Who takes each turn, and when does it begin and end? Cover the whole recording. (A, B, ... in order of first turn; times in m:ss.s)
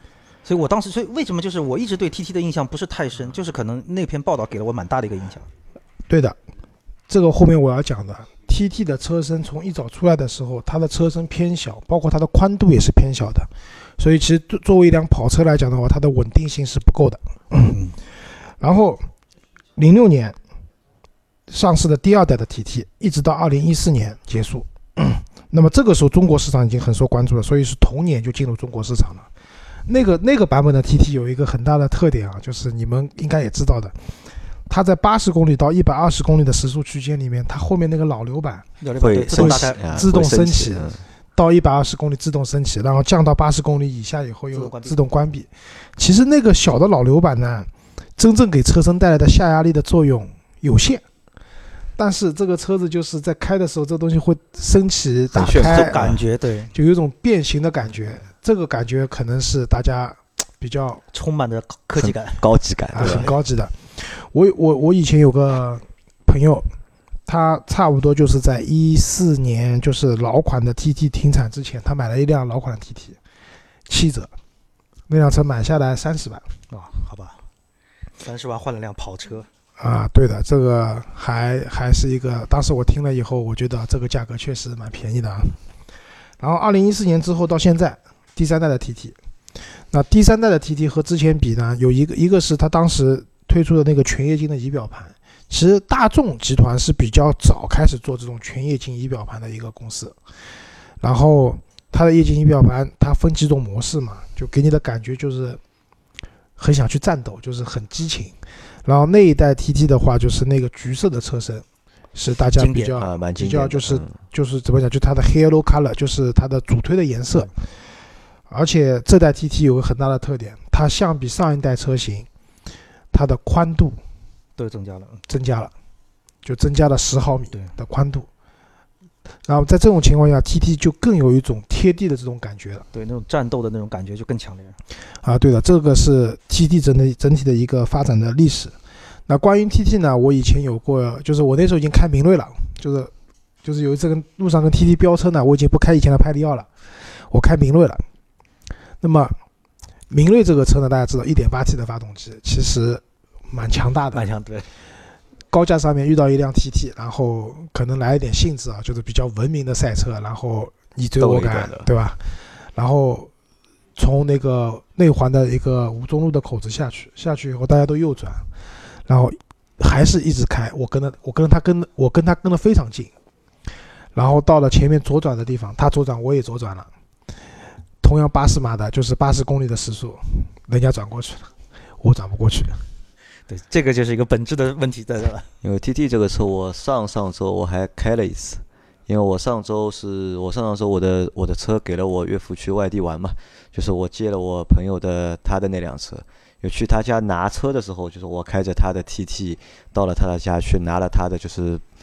0:00.4-0:05.5 A
0:06.1-0:06.4 B
0:07.1-0:17.8 B
0:17.7-0:18.0 A
0:18.6-0:19.1 B
0:19.8-0:20.4 B
0:21.5-0:29.3 B
0:29.9-0:34.1 B
0:34.7-0:38.7 B
0:38.8-0:39.8 A
0:39.0-0:41.0 C
0:39.3-0:40.8 B
0:41.4-0:51.0 B
0:44.5-0:45.0 A
0:52.0-0:56.1 B
0:55.4-0:56.2 C
0:55.4-0:56.7 A
0:56.7-1:01.0 B
1:01.1-1:02.5 A
1:02.0-1:03.3 C
1:02.9-1:06.7 B
1:03.0-1:03.3 A
1:07.3-1:13.2 B
1:13.9-1:14.3 B
1:15.1-1:16.5 B
1:16.7-1:17.4 A
1:18.2-1:19.5 A
1:19.8-1:25.6 B
1:26.4-1:29.2 B
1:29.8-1:40.2 B
1:41.0-1:45.6 B
1:46.6-1:57.5 B
1:52.6-1:52.9 A
1:53.0-1:54.2 C
1:58.5-2:02.3 B
2:03.1-2:04.0 B
2:04.6-2:05.2 A
2:05.3-2:05.7 B
2:06.4-2:08.3 B
2:09.4-2:12.9 B
2:12.9-2:14.8 A
2:15.2-2:18.8 B
2:19.3-2:23.1 B
2:23.6-2:28.0 B
2:29.0-2:29.4 B
2:30.1-2:34.2 B
2:34.1-2:34.7 A
2:35.5-2:43.3 B
2:41.2-2:41.9 C
2:44.0-2:48.5 B
2:49.0-2:53.1 B
2:54.1-2:56.9 B
2:58.0-3:02.9 B
3:03.5-3:05.5 A
3:05.6-3:21.9 C